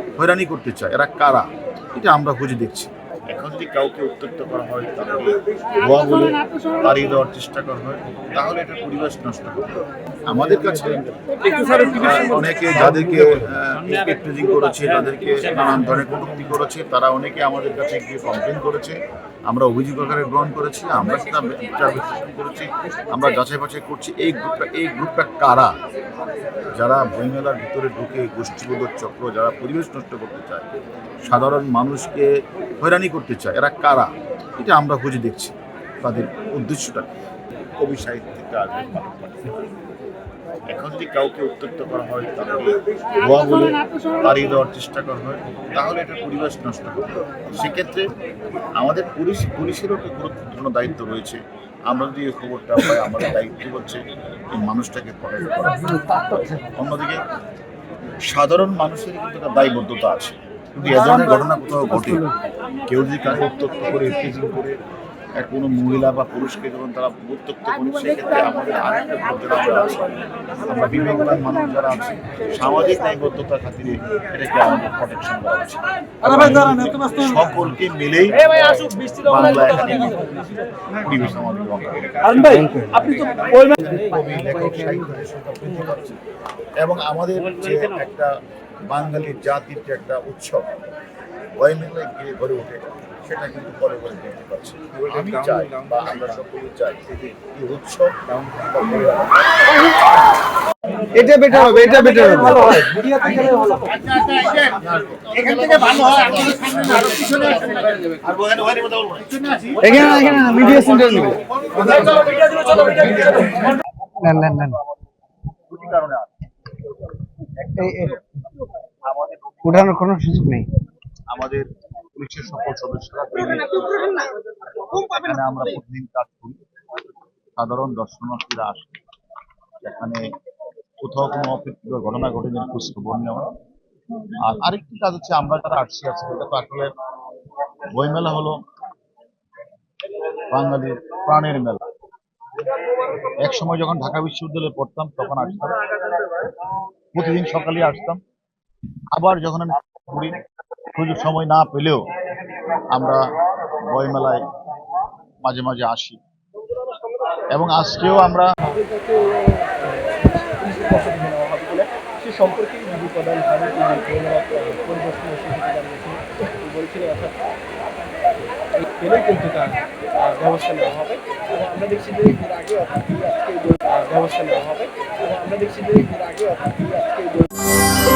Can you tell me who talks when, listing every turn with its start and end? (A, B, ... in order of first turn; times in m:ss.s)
0:00.2-0:09.7 A
0:10.3-0:11.2 A
0:11.7-0:19.0 A
0:19.5-0:25.7 A
0:26.7-0:30.7 A
0:31.2-0:37.1 A
0:37.8-0:39.5 A
0:40.7-0:48.1 A
0:48.8-0:57.2 A
0:58.3-1:02.3 A
1:02.9-1:04.8 A
1:05.4-1:20.4 A
1:21.0-1:26.2 A
1:22.6-1:23.1 B
1:26.8-1:28.3 A
1:28.9-1:30.7 A
1:31.6-1:39.6 A
1:41.2-1:43.1 B
1:43.1-1:49.8 A
1:49.8-1:51.4 B
1:51.7-1:53.7 A
1:54.2-1:54.8 B
1:55.7-1:56.3 A
1:57.8-1:58.2 B
1:59.0-1:59.8 A
1:59.6-2:00.7 B
2:01.3-2:04.2 A
2:04.8-2:06.6 A
2:07.6-2:08.9 A
2:09.8-2:10.2 A
2:11.0-2:13.5 A
2:14.4-2:16.9 A
2:18.0-2:18.6 A
2:20.5-2:21.8 A
2:23.4-2:25.8 A
2:27.1-2:28.2 A
2:29.1-2:30.4 A
2:30.9-2:32.0 A
2:32.9-2:33.2 A
2:33.8-2:34.5 A
2:35.4-2:36.2 A
2:37.5-2:38.5 A
2:38.8-2:47.4 C
2:48.9-2:57.5 C